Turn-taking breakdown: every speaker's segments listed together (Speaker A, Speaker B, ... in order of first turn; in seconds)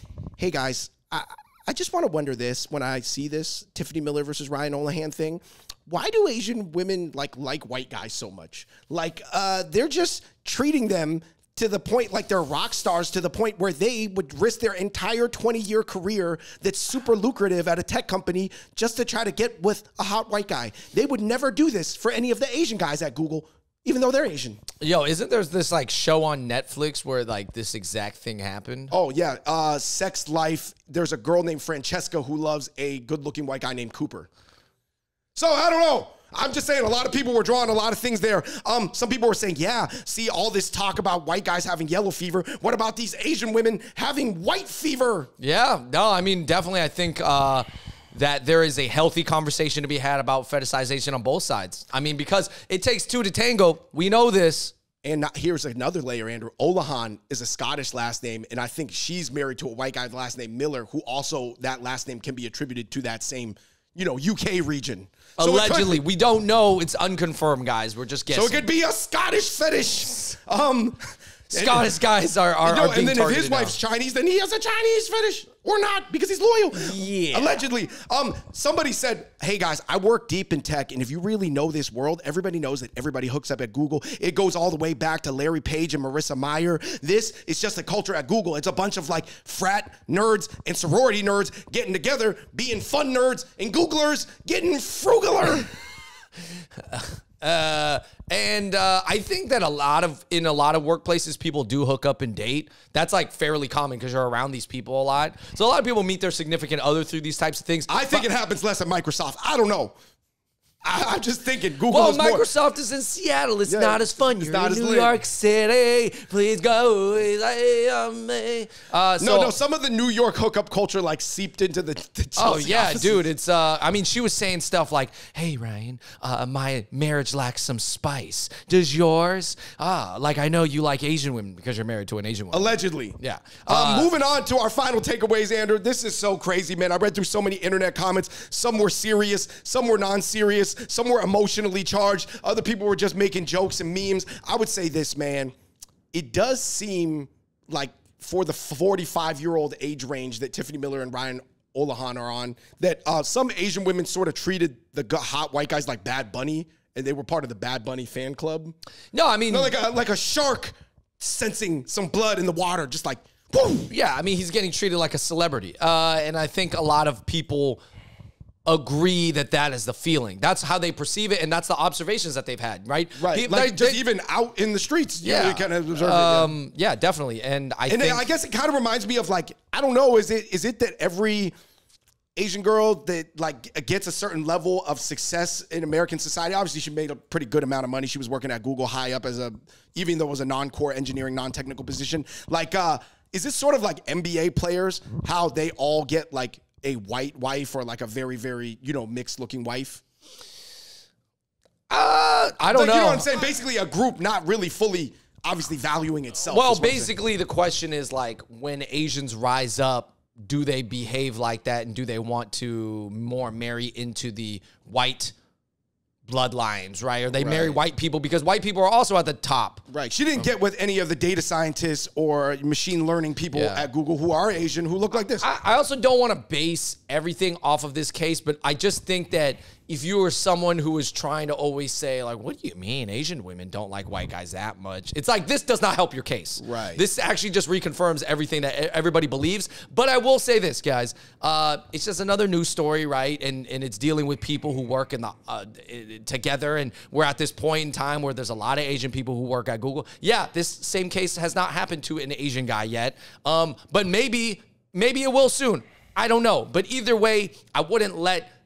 Speaker A: 0.4-24.6, 28.9-34.3, 35.3-45.3, 55.0-66.0, 68.3-71.0, 71.5-71.9, 72.6-95.7, 107.9-109.9, 110.8-112.4, 113.7-115.1, 119.2-123.2, 132.5-145.5, 146.1-158.7, 159.5-163.9, 173.2-176.5, 177.9-181.5, 182.3-200.0, 202.7-207.1, 217.3-217.8, 219.9-225.5, 236.6-237.0
Speaker B: 24.8-28.9, 45.4-54.7, 65.4-68.7, 71.5-73.8, 76.7-77.6, 96.8-108.3, 111.9-119.5, 122.4-134.1, 159.1-159.7, 163.9-167.8, 168.7-174.0, 175.2-178.3, 201.9-203.2, 206.5-215.3, 216.2-219.8, 223.5-223.9, 225.1-258.5